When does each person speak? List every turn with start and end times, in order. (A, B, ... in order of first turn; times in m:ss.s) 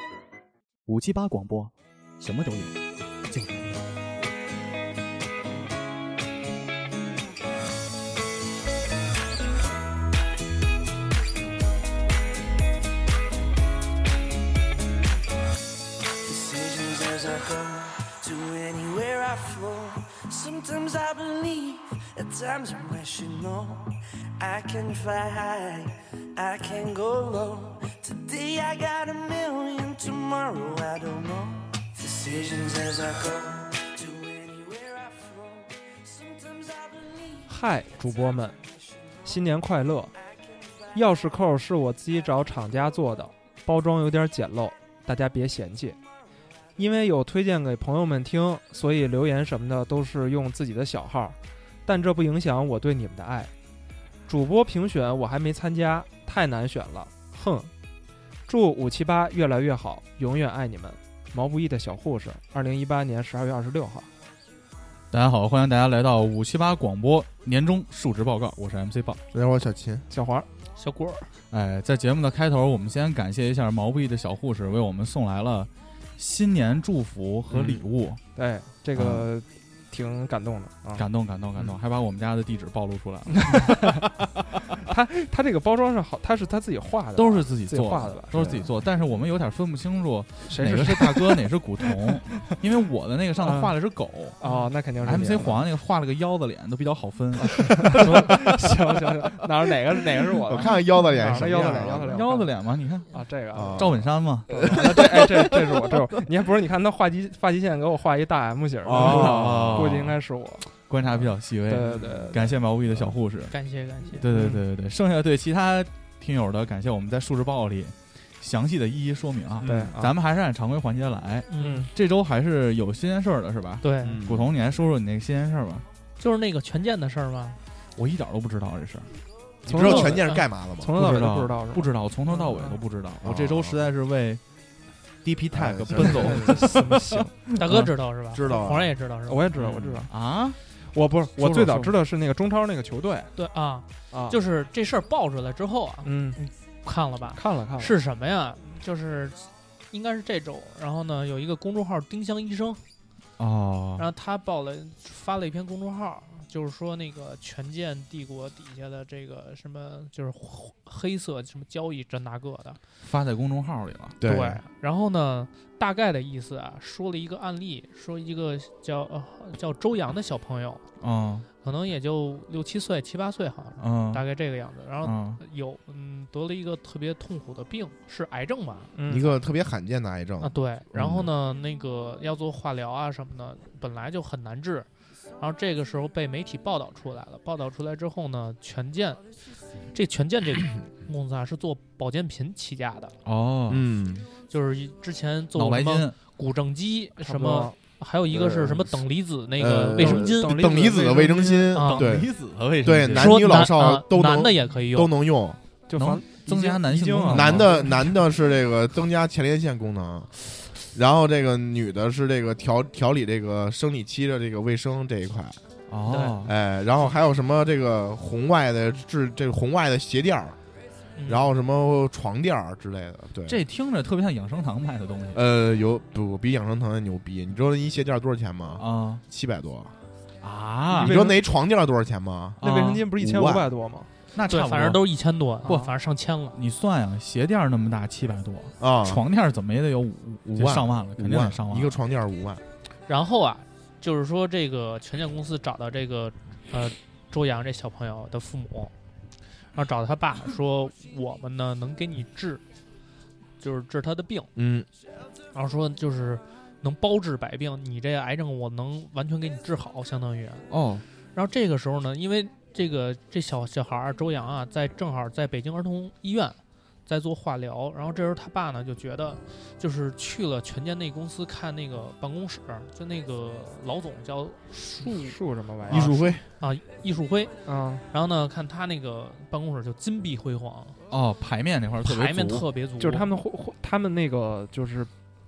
0:00.9-0:02.7 A
0:03.3-0:03.9 A
0:16.2-0:37.5 B
0:37.5-0:38.6 C
0:39.2-0:40.1 C
0:40.6-0:40.8 B
0:40.9-0:46.0 C
0:46.8-0:53.5 C
0:54.3-0:57.7 C
0:58.4-1:04.1 C
1:05.1-1:09.2 A
1:09.3-1:10.1 D
1:10.1-1:10.5 C
1:10.8-1:11.3 E
1:11.5-1:18.2 A
1:17.5-1:17.8 D
1:18.3-1:21.0 C
1:18.9-1:19.2 A
1:21.0-1:24.0 A
1:23.4-1:24.0 C
1:24.7-1:28.5 C
1:27.2-1:34.4 A
1:28.3-1:28.6 D
1:30.5-1:32.1 C
1:33.4-1:33.7 C
1:34.4-1:35.6 C
1:35.0-1:38.3 A
1:37.4-1:42.5 C
1:40.4-1:42.2 D
1:42.1-1:43.2 A
1:43.1-1:44.0 C
1:43.5-1:46.0 D
1:43.8-1:44.6 A
1:44.5-1:53.0 C
1:48.8-1:50.0 D
1:48.9-1:50.2 A
1:50.8-1:53.5 A
1:53.5-1:54.2 E
1:54.2-2:05.8 A
1:54.2-1:54.6 C
1:59.6-1:59.9 D
1:59.6-2:00.1 C
2:01.5-2:01.9 E
2:01.6-2:01.9 C
2:03.8-2:04.2 E
2:04.0-2:04.5 D
2:06.2-2:07.6 E
2:08.0-2:09.1 A
2:09.6-2:11.0 D
2:09.6-2:12.8 C
2:10.9-2:14.4 A
2:13.2-2:13.9 D
2:15.2-2:17.9 A
2:15.5-2:16.7 D
2:16.0-2:17.3 C
2:17.6-2:19.5 E
2:18.3-2:18.9 D
2:19.3-2:20.1 C
2:19.6-2:20.0 D
2:19.6-2:20.6 A
2:20.7-2:23.3 C
2:21.4-2:22.0 A
2:23.4-2:32.8 E
2:24.1-2:24.4 C
2:26.0-2:26.4 C
2:27.3-2:28.0 C
2:33.4-2:34.0 A
2:34.0-2:42.8 E
2:43.0-2:44.2 A
2:44.2-2:44.6 D
2:44.2-2:50.8 E
2:51.0-2:51.5 A
2:51.6-2:58.9 E
2:53.8-2:54.2 A
2:55.0-2:55.4 A
2:58.9-2:59.3 C
2:59.1-3:01.3 D
3:00.4-3:09.2 E
3:09.9-3:13.1 E
3:13.2-3:13.8 A
3:13.7-3:14.3 D
3:14.5-3:20.7 E
3:15.5-3:16.2 A
3:17.2-3:17.8 C
3:18.3-3:19.0 D
3:19.6-3:25.6 D
3:19.9-3:22.1 C
3:21.7-3:22.0 E
3:22.0-3:23.5 A
3:23.2-3:25.1 E
3:25.9-3:28.1 C
3:25.9-3:27.8 A
3:27.3-3:35.6 D
3:35.9-3:36.5 A
3:36.1-3:36.4 E
3:36.4-3:40.6 D
3:41.2-3:41.4 E
3:41.2-3:43.6 D
3:43.5-3:45.4 A
3:45.3-3:50.0 D
3:48.8-3:49.2 A
3:50.4-3:51.2 A
3:50.9-3:51.4 C
3:51.0-3:52.6 D
3:52.6-3:53.1 A
3:52.6-3:54.1 C
3:53.1-3:53.7 D
3:54.3-3:55.0 A
3:54.5-3:56.5 E
3:55.6-3:55.9 A
3:56.5-4:02.0 A
3:58.8-3:59.2 D
4:00.5-4:02.6 D
4:03.1-4:08.9 E
4:09.7-4:12.6 E
4:13.6-4:14.5 E
4:14.6-4:14.9 D
4:15.5-4:20.6 E
4:20.7-4:21.0 A
4:21.3-4:35.4 E
4:35.0-4:36.2 C
4:35.8-4:36.4 D
4:35.9-4:41.0 E
4:37.6-4:38.0 C
4:41.1-4:42.7 A
4:42.0-4:43.3 E
4:43.0-4:45.1 C